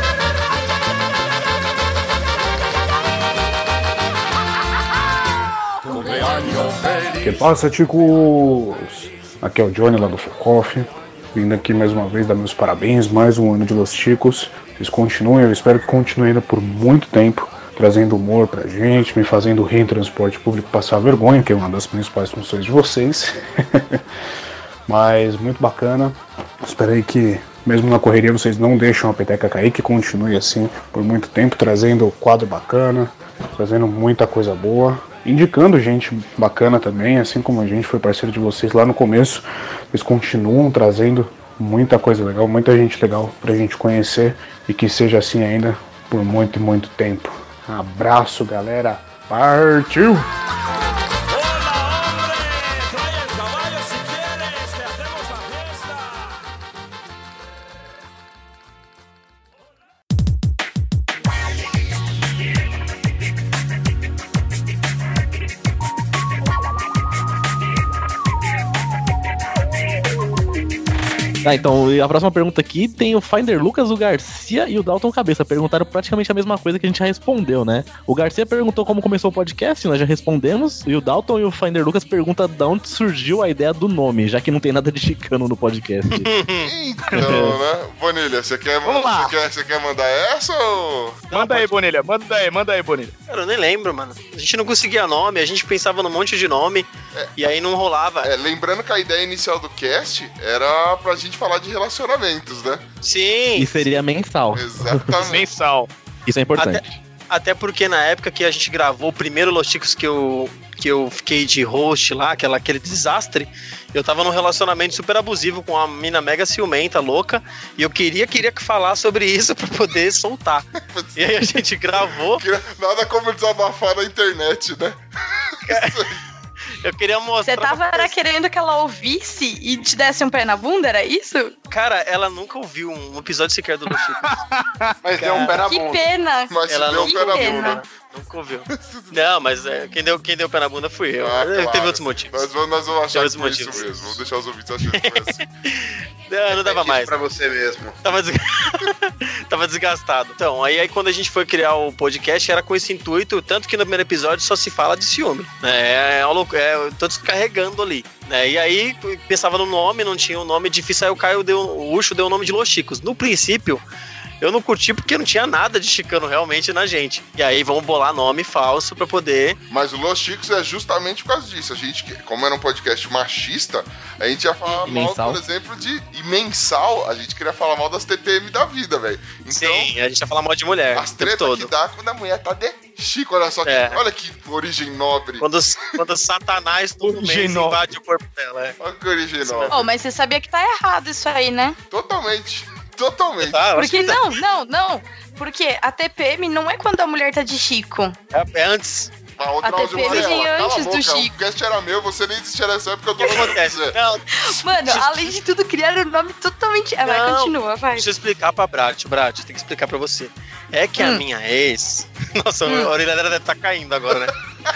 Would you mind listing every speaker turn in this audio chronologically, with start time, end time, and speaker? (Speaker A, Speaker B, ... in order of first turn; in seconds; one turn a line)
Speaker A: 7.2-24.0
Speaker A: 24.9-50.3
Speaker B: 71.4-86.3
Speaker C: 86.2-86.7
Speaker D: 86.6-91.3
Speaker B: 87.2-87.5
Speaker E: 88.8-89.3
Speaker C: 91.3-91.7
Speaker E: 91.3-93.1
Speaker C: 93.3-98.3
Speaker D: 98.2-102.8
Speaker C: 103.0-103.7
Speaker B: 103.6-104.7
Speaker D: 104.5-105.5
Speaker E: 105.2-105.9
Speaker B: 106.3-107.0
Speaker C: 106.6-122.4
Speaker D: 120.8-121.6
Speaker D: 122.3-125.0
Speaker C: 125.7-126.0
Speaker D: 125.7-126.2
Speaker C: 126.8-128.2
Speaker F: 127.5-131.5
Speaker C: 131.7-134.2
Speaker E: 134.2-134.9
Speaker G: 135.0-136.1
Speaker C: 135.2-135.5
Speaker F: 135.5-137.8
Speaker D: 136.5-137.8
Speaker C: 136.7-142.5
Speaker D: 138.7-139.1
Speaker D: 141.2-145.4
Speaker C: 143.1-144.2
Speaker C: 144.9-145.7
Speaker C: 146.3-147.1
Speaker G: 146.6-148.0
Speaker C: 148.0-163.9
Speaker C: 164.4-169.6
Speaker D: 169.7-179.9
Speaker B: 174.7-175.4
Speaker C: 179.5-181.7
Speaker D: 180.9-185.4
Speaker C: 183.7-184.0
Speaker C: 185.4-188.8
Speaker E: 187.0-187.8
Speaker D: 188.8-189.8
Speaker C: 189.4-189.8
Speaker F: 189.7-191.8
Speaker D: 191.9-193.7
Speaker C: 193.4-194.3
Speaker F: 193.8-198.2
Speaker C: 198.3-199.1
Speaker D: 199.4-204.0
Speaker F: 199.6-201.3
Speaker C: 200.0-200.6
Speaker C: 203.2-204.2
Speaker F: 204.3-208.1
Speaker C: 204.8-205.4
Speaker C: 207.1-214.3
Speaker F: 211.0-211.2